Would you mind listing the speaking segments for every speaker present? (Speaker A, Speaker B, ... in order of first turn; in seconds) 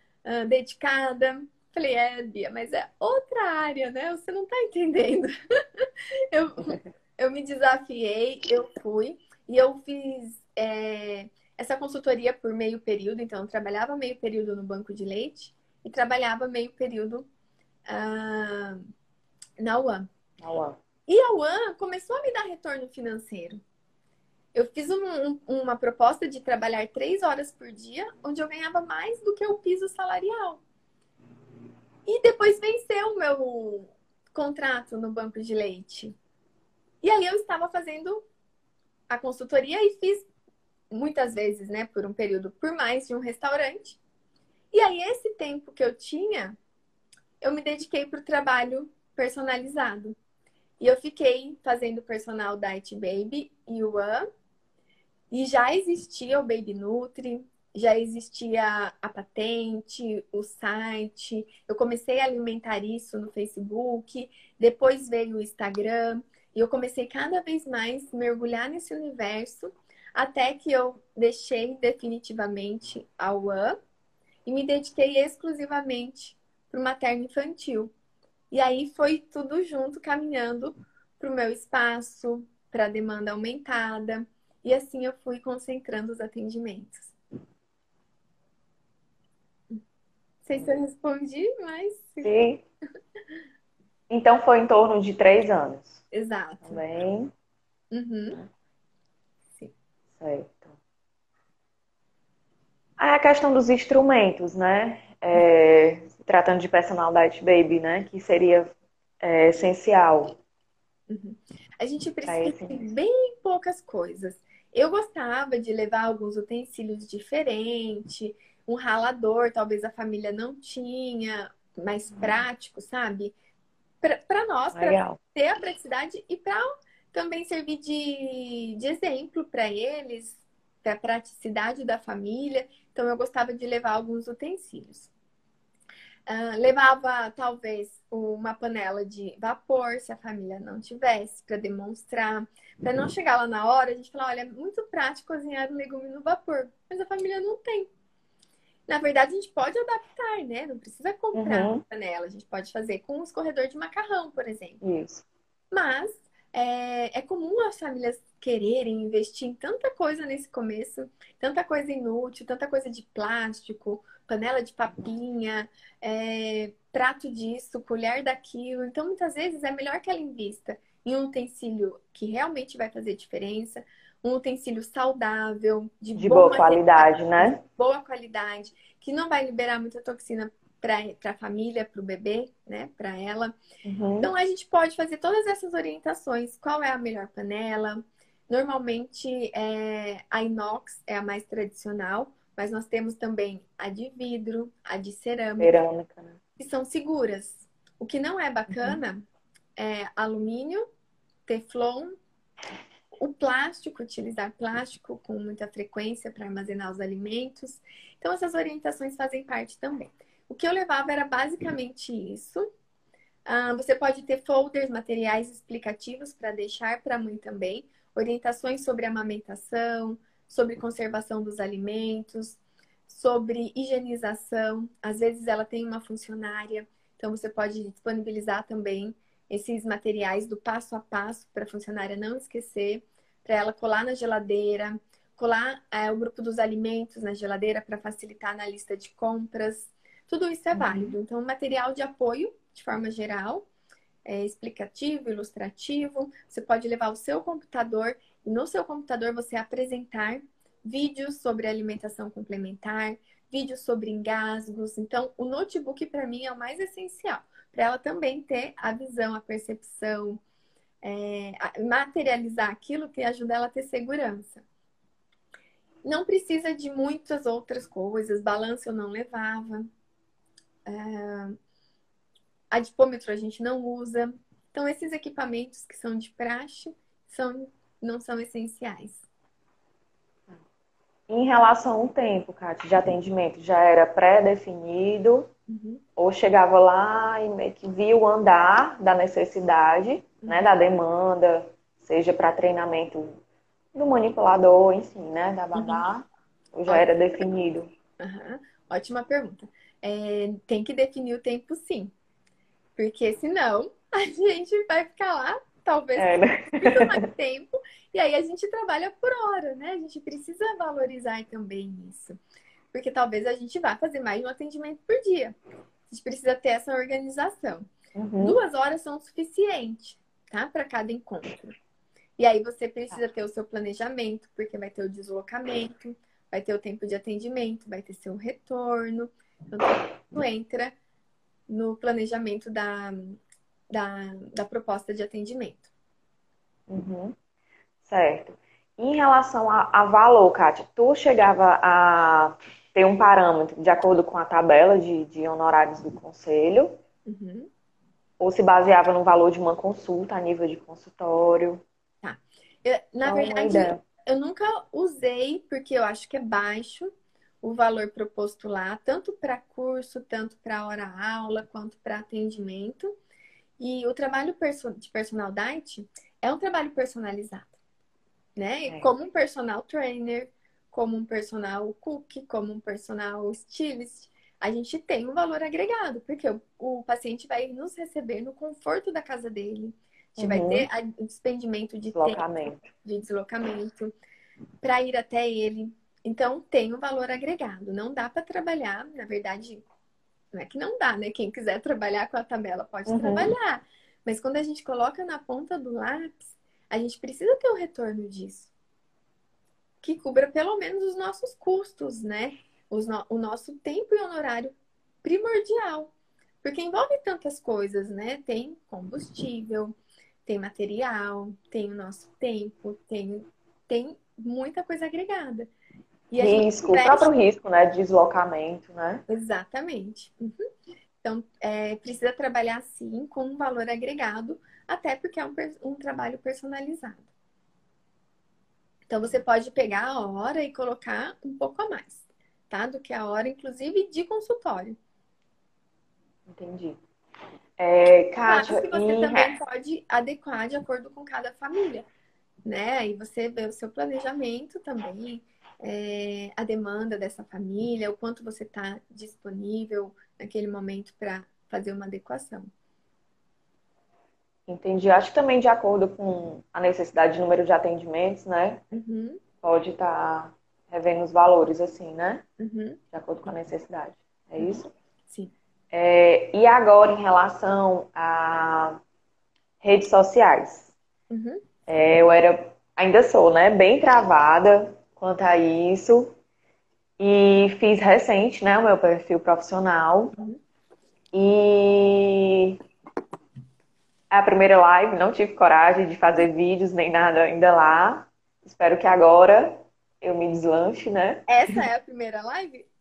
Speaker A: 0.2-17.2, 17.9-18.9, 19.6-20.1, 21.1-23.6, 24.5-30.6, 32.0-36.1, 37.0-38.2, 39.1-40.3, 40.9-44.0, 44.7-46.6, 47.4-50.2, 50.8-54.3, 55.3-73.8, 74.5-77.9, 78.5-87.1, 90.4-92.3, 96.1-96.8, 97.9-98.4, 111.1-123.3, 124.0-135.1, 136.3-147.9, 148.9-154.8, 155.7-183.6, 184.2-195.7, 196.6-199.2, 199.8-200.8, 201.5-202.1, 203.2-212.7, 213.4-243.7, 244.2-260.4, 261.0-264.6, 266.0-269.9, 270.9-271.6, 272.7-279.3, 285.7-286.0, 290.4-290.7, 295.8-296.0, 298.2-302.1, 302.9-312.4, 312.9-315.6, 316.1-317.9, 318.4-321.7, 322.4-330.9, 331.7-335.9, 347.2-347.7, 352.2-357.1, 357.6-363.1, 363.8-367.7, 368.6-384.1, 384.8-389.8, 390.5-398.7, 400.0-415.7, 416.3-417.3, 419.3-420.6, 421.2-427.2, 429.1-435.0, 438.4-442.1, 442.6-452.7, 458.9-459.4, 462.6-463.0, 464.6-465.5, 471.3-471.6, 491.5-492.9
Speaker B: 20.4-20.8, 92.2-92.6, 94.1-96.0, 96.6-97.3, 100.2-100.8, 103.0-110.3, 112.2-112.8, 124.7-125.2, 151.3-151.8, 154.8-155.2, 176.2-177.6, 183.8-184.3, 195.6-196.4, 240.7-241.1, 281.3-285.5, 286.2-293.4, 293.9-297.9, 306.2-307.2, 318.1-318.6, 336.9-337.4, 338.0-347.0, 348.4-351.8, 353.2-354.0, 380.4-380.9, 382.1-382.8, 393.1-393.5, 416.4-419.2, 436.5-437.0, 437.8-439.6, 454.7-458.8, 459.6-462.4, 463.1-464.9, 465.9-469.0, 469.8-470.9, 471.9-476.3, 477.2-480.3, 481.3-482.8, 484.3-491.8